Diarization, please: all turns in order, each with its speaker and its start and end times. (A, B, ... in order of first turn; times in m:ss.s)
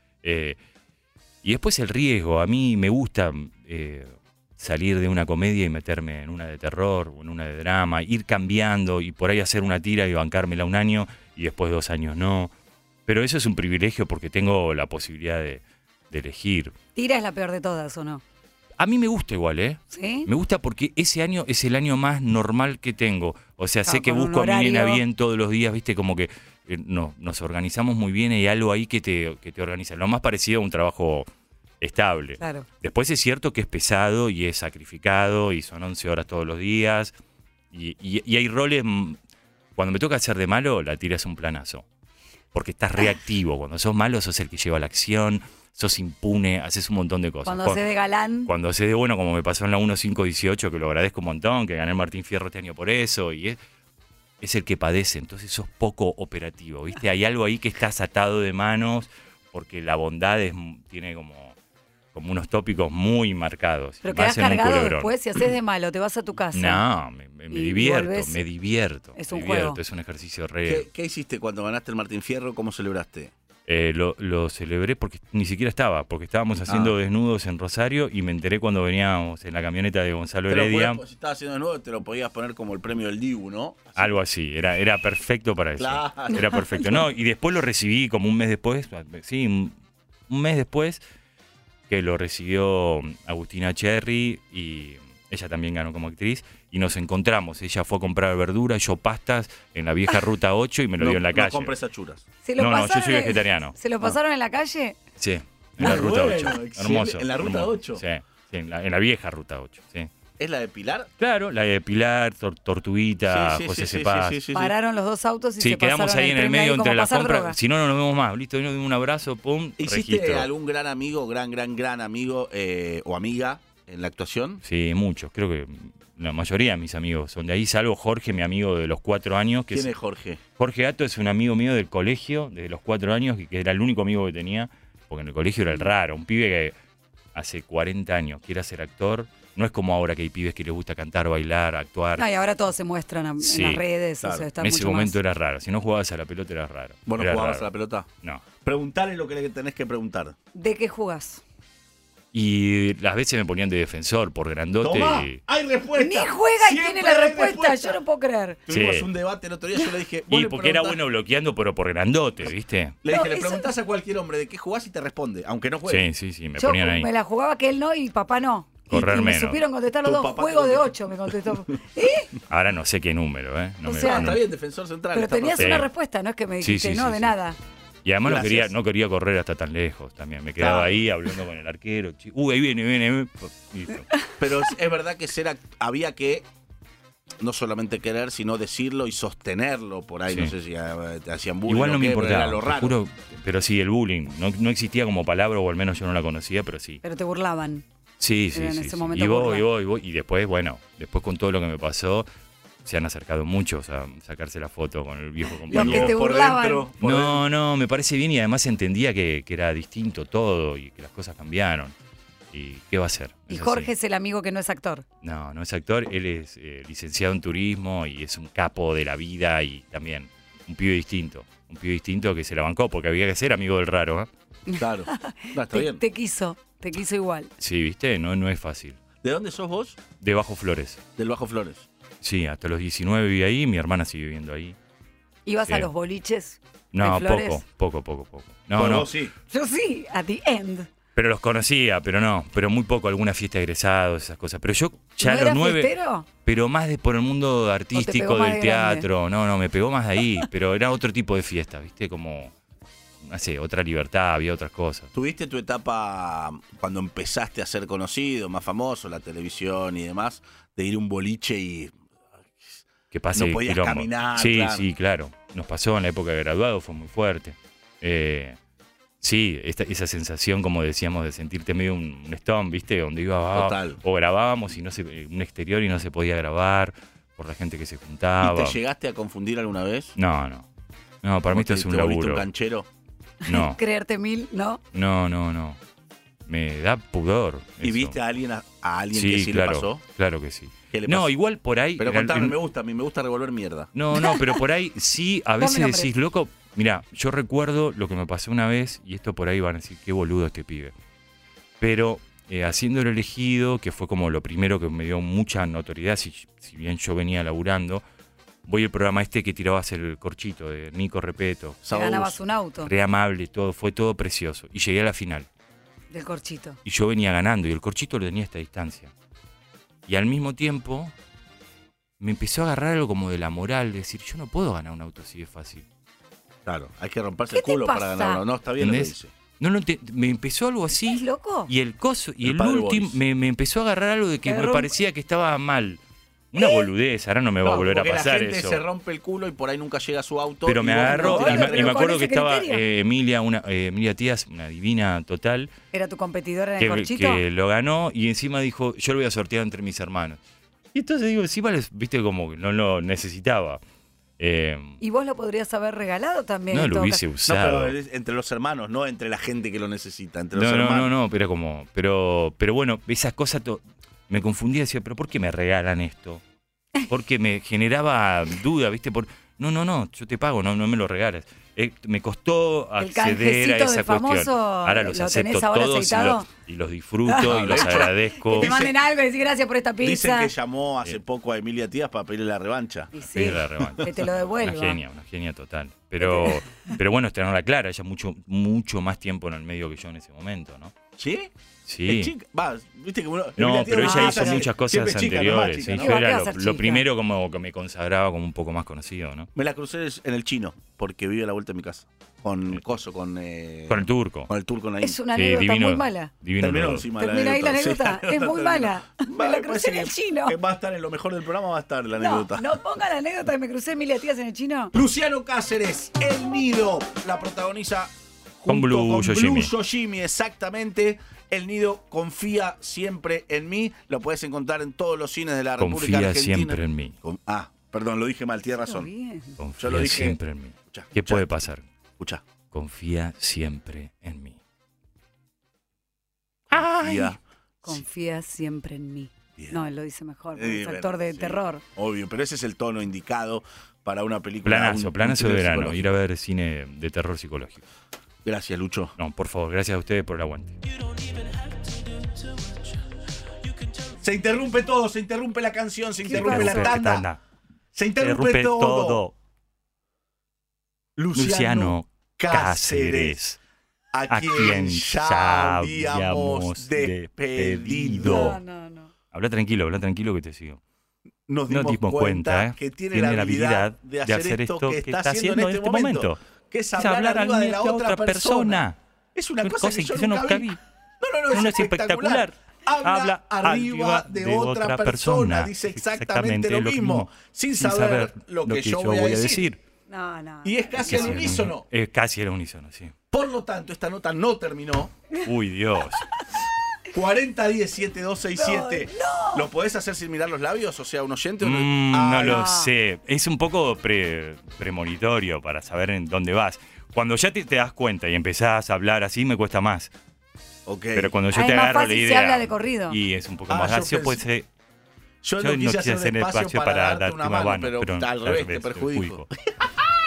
0:00.2-0:00.6 A
0:01.4-0:12.5 A
0:13.1-0:16.7 A
0:17.0-0:18.2 B
0:18.8-0:31.3 A
0:19.9-0:20.3 B
0:23.9-0:25.0 B
0:31.8-0:37.2 A
0:32.4-0:32.7 B
0:37.7-0:39.2 A
0:39.8-0:41.9 A
0:42.5-0:47.8 A
0:47.4-0:48.5 B
0:48.5-0:53.6 A
0:54.4-1:01.6 A
1:02.1-1:05.1 A
1:04.0-1:06.8 B
1:06.5-1:10.9 A
1:07.5-1:08.4 B
1:09.2-1:09.8 B
1:10.6-1:13.3 C
1:13.7-1:21.0 A
1:16.7-1:16.9 C
1:20.5-1:24.2 C
1:24.0-1:31.0 A
1:25.8-1:26.9 C
1:31.9-1:41.7 A
1:41.0-1:42.2 C
1:42.4-1:45.0 B
1:42.6-1:43.8 A
1:45.2-1:50.1 A
1:45.8-1:48.0 C
1:50.4-1:51.1 C
1:51.2-1:54.4 A
1:53.3-1:54.7 C
1:54.5-1:57.6 B
1:55.6-2:00.5 A
1:59.8-2:04.6 C
2:04.6-2:09.9 A
2:09.7-2:10.4 C
2:10.6-2:16.8 A
2:17.3-2:22.3 A
2:22.2-2:25.2 B
2:23.4-2:23.8 A
2:24.2-2:24.5 C
2:24.6-2:27.7 A
2:27.1-2:28.1 C
2:28.6-2:30.4 C
2:30.5-2:31.4 B
2:32.3-2:35.4 A
2:34.8-2:38.0 C
2:36.0-2:38.6 B
2:38.7-2:41.0 C
2:38.7-2:39.1 A
2:40.3-2:43.0 A
2:43.0-2:46.0 C
2:43.1-2:43.7 B
2:45.9-2:47.1 A
2:46.6-2:52.3 B
2:48.9-2:49.6 A
2:50.0-2:51.6 C
2:52.5-2:54.4 A
2:53.8-2:54.4 B
2:54.0-2:55.9 C
2:55.1-2:57.6 B
2:55.6-2:55.9 A
2:56.6-2:57.3 A
2:58.0-3:04.1 A
2:58.2-2:58.7 C
3:00.6-3:01.0 C
3:04.4-3:06.5 C
3:07.4-3:13.0 C
3:10.3-3:10.5 A
3:11.7-3:17.0 A
3:17.0-3:17.8 B
3:18.2-3:22.3 A
3:18.5-3:19.7 B
3:22.8-3:26.2 A
3:25.7-3:26.9 B
3:25.7-3:27.4 C
3:27.0-3:32.0 A
3:32.5-3:33.9 A
3:33.5-3:35.0 B
3:35.2-3:44.3 A
3:44.7-3:47.5 B
3:44.7-3:46.0 C
3:47.6-3:49.0 A
3:49.2-3:50.0 C
3:50.2-3:51.0 A
3:51.2-3:51.9 C
3:52.2-3:54.8 A
3:55.5-3:57.6 B
3:55.6-3:55.9 A
3:56.9-3:59.1 A
3:58.8-3:59.3 C
3:59.5-4:00.9 B
4:01.2-4:12.5 A
4:05.2-4:06.3 B
4:07.9-4:09.1 B
4:13.2-4:15.1 A
4:15.1-4:22.0 C
4:22.5-4:24.9 C
4:23.1-4:28.6 A
4:29.2-4:38.8 A
4:33.5-4:34.0 C
4:38.4-4:40.2 C
4:40.2-4:40.7 A
4:41.2-4:42.5 A
4:41.5-4:42.9 C
4:43.4-4:44.8 B
4:43.4-4:43.8 A
4:44.9-4:45.8 A
4:46.5-4:48.2 A
4:47.8-4:50.0 C
4:49.1-4:52.6 A
4:50.9-4:51.3 C
4:52.0-4:53.9 C
4:53.9-5:01.0 A
4:54.1-4:54.6 B
4:55.6-4:56.1 B
5:01.8-5:08.0 A
5:08.6-5:11.8 A
5:11.8-5:12.4 C
5:11.9-5:12.9 B
5:12.8-5:15.5 A
5:16.1-5:16.8 B
5:16.8-5:19.1 A
5:20.1-5:21.2 A
5:22.2-5:25.9 A
5:26.7-5:29.3 C
5:27.5-5:28.4 B
5:28.8-5:36.0 A
5:31.1-5:31.7 B
5:32.4-5:33.2 C
5:34.4-5:34.9 B
5:36.5-5:38.8 A
5:36.6-5:36.9 B
5:37.6-5:42.1 C
5:40.6-5:45.7 A
5:41.0-5:42.8 B
5:45.9-5:47.4 B
5:46.8-5:50.4 A
5:50.9-5:53.8 A
5:54.4-5:55.0 A
5:55.0-5:57.2 B
5:56.7-5:58.0 A
5:57.5-6:01.1 C
6:00.5-6:06.4 A
6:07.1-6:18.8 A
6:13.0-6:16.5 B
6:17.3-6:20.5 B
6:17.4-6:19.0 C
6:20.0-6:23.1 C
6:23.1-6:25.0 B
6:23.2-6:31.0 A
6:23.8-6:24.1 C
6:26.2-6:27.0 B
6:31.2-6:31.5 C
6:31.9-6:32.3 A
6:32.1-6:36.2 C
6:33.6-6:39.5 A
6:33.9-6:34.7 B
6:36.0-6:37.0 B
6:39.6-6:45.2 C
6:43.9-6:44.5 A
6:45.0-6:46.3 B
6:45.3-6:47.1 A
6:46.6-6:52.7 C
6:47.2-6:50.6 B
6:52.2-6:54.9 B
6:54.9-7:09.1 C
6:58.7-6:59.7 A
7:05.8-7:07.2 A
7:08.8-7:09.6 B
7:09.6-7:11.9 A
7:09.8-7:11.6 C
7:12.2-7:12.4 C
7:12.7-7:14.6 A
7:16.7-7:17.4 A
7:16.7-7:17.4 C
7:17.8-7:21.8 B
7:20.5-7:26.2 C
7:24.6-7:27.8 A
7:28.4-7:29.2 C
7:29.2-7:30.8 A
7:31.2-7:32.8 C
7:34.0-7:37.3 C
7:36.2-7:37.1 B
7:36.4-7:37.4 A
7:37.9-7:39.2 C
7:38.2-7:39.4 A
7:41.2-7:43.4 C
7:41.3-7:43.6 A
7:44.1-7:48.6 C
7:44.3-7:48.6 A
7:48.2-7:49.1 B
7:49.3-7:50.8 A
7:51.5-8:09.7 C
7:51.7-7:56.4 A
7:56.9-7:59.0 A
7:59.6-8:00.8 A
8:01.5-8:09.8 A
8:10.1-8:11.6 B
8:10.6-8:11.9 C
8:11.1-8:13.2 A
8:13.3-8:15.1 C
8:15.4-8:16.3 A
8:17.1-8:22.7 C
8:18.6-8:19.7 B
8:21.6-8:30.1 A
8:22.4-8:22.9 B
8:30.9-8:31.4 C
8:31.2-8:34.7 A
8:31.5-8:33.2 B
8:33.7-8:34.4 C
8:35.4-8:40.0 C
8:35.6-8:39.5 A